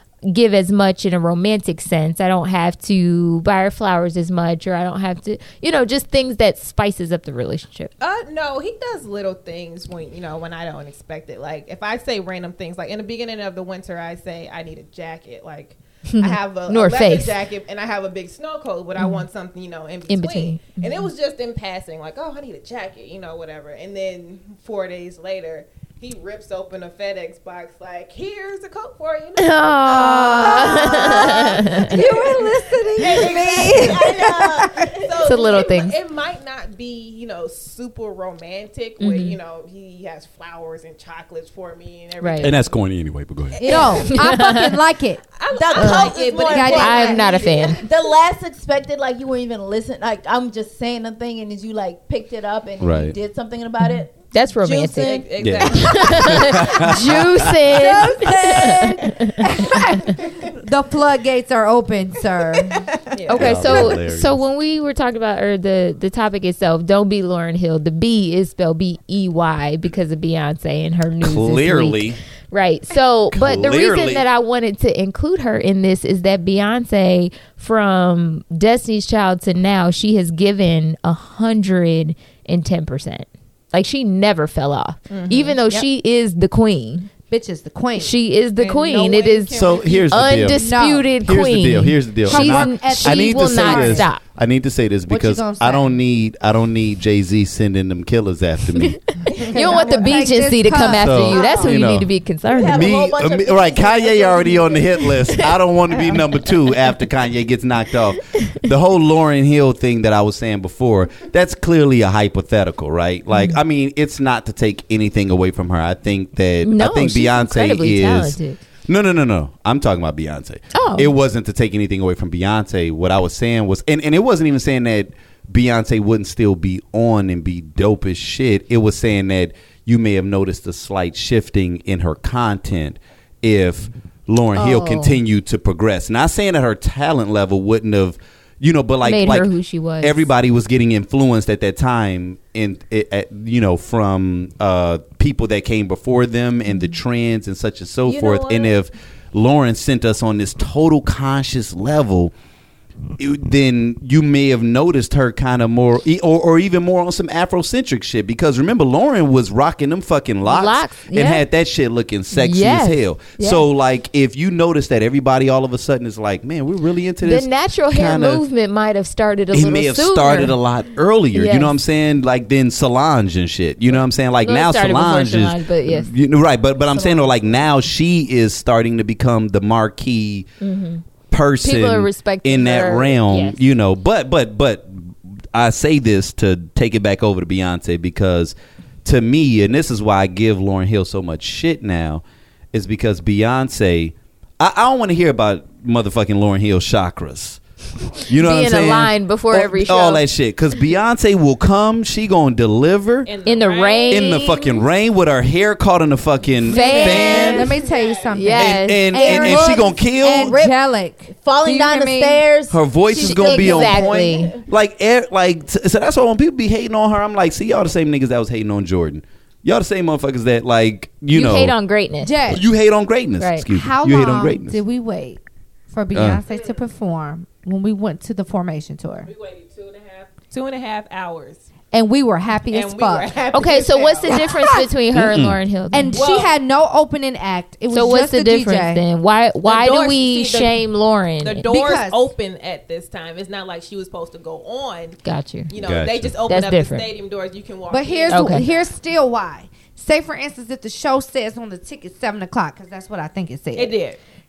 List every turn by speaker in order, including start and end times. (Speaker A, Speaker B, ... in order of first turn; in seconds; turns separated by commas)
Speaker A: 0.3-7.9, Speaker B: 8.0-42.8, Speaker A: 16.1-17.4, Speaker A: 19.0-19.2, Speaker A: 20.1-21.1, Speaker A: 29.4-31.9, Speaker C: 30.0-30.9, Speaker D: 30.0-35.0, Speaker C: 33.2-34.9, Speaker A: 35.2-36.0, Speaker A: 39.0-39.4, Speaker A: 42.2-42.5, Speaker E: 42.4-43.6, Speaker B: 43.5-44.2, Speaker C: 43.6-44.2, Speaker D: 43.6-45.2, Speaker A: 44.0-44.8, Speaker B: 45.4-47.9, Speaker C: 45.5-55.3, Speaker A: 45.8-46.1, Speaker D: 45.8-47.2, Speaker A: 46.7-47.8, Speaker E: 52.8-53.1, Speaker A: 53.8-60.1, Speaker B: 55.0-56.5, Speaker E: 55.4-57.5, Speaker D: 57.8-62.9, Speaker C: 57.8-58.9, Speaker C: 62.7-63.0, Speaker B: 63.1-63.7, Speaker A: 63.3-87.1, Speaker E: 63.3-64.5, Speaker E: 71.2-72.2, Speaker E: 73.3-74.2, Speaker B: 85.1-85.6, Speaker D: 87.3-88.1, Speaker A: 88.0-94.2, Speaker B: 88.6-90.5, Speaker E: 89.5-90.6, Speaker D: 90.5-91.1, Speaker E: 91.2-99.0, Speaker D: 92.2-94.1, Speaker D: 95.1-95.9, Speaker A: 98.8-102.9, Speaker D: 99.3-101.7, Speaker E: 100.9-102.1, Speaker C: 102.5-105.1, Speaker E: 102.7-152.3, Speaker A: 108.3-108.6, Speaker A: 113.3-113.6, Speaker A: 116.6-118.6, Speaker A: 120.7-121.1, Speaker A: 134.5-135.2, Speaker A: 139.0-140.3, Speaker C: 148.1-148.8, Speaker E: 153.2-168.4, Speaker A: 160.4-161.4, Speaker A: 162.3-163.6, Speaker A: 167.2-170.6, Speaker E: 169.5-180.5, Speaker A: 171.3-171.7, Speaker A: 174.4-176.1, Speaker C: 176.9-177.3, Speaker A: 180.6-181.0, Speaker E: 181.3-197.6, Speaker A: 181.6-183.6, Speaker E: 198.1-203.3, Speaker A: 198.3-200.2, Speaker B: 203.2-204.6, Speaker A: 203.4-204.6, Speaker E: 204.1-207.8, Speaker A: 206.6-207.7, Speaker D: 206.7-212.5, Speaker B: 206.9-208.3, Speaker A: 208.3-209.3, Speaker E: 208.5-210.6, Speaker C: 209.2-210.8, Speaker C: 211.3-214.6, Speaker E: 212.7-221.8, Speaker A: 213.2-214.5, Speaker D: 213.2-213.9, Speaker A: 221.3-222.5, Speaker D: 222.2-222.6, Speaker E: 222.5-224.8, Speaker A: 223.4-223.7, Speaker D: 223.7-229.3, Speaker E: 226.1-226.4, Speaker B: 226.5-226.8, Speaker B: 229.2-231.7, Speaker D: 231.9-233.3, Speaker B: 232.7-234.4, Speaker A: 233.5-236.2, Speaker D: 234.3-234.9, Speaker E: 235.1-235.6, Speaker D: 235.9-239.0, Speaker B: 236.1-236.5, Speaker A: 237.9-241.7, Speaker B: 239.6-240.8, Speaker B: 241.4-248.9, Speaker D: 241.7-242.3, Speaker A: 245.2-245.7, Speaker E: 245.8-246.3, Speaker A: 246.4-247.1, Speaker D: 247.9-253.9, Speaker A: 248.3-248.7, Speaker B: 253.7-254.2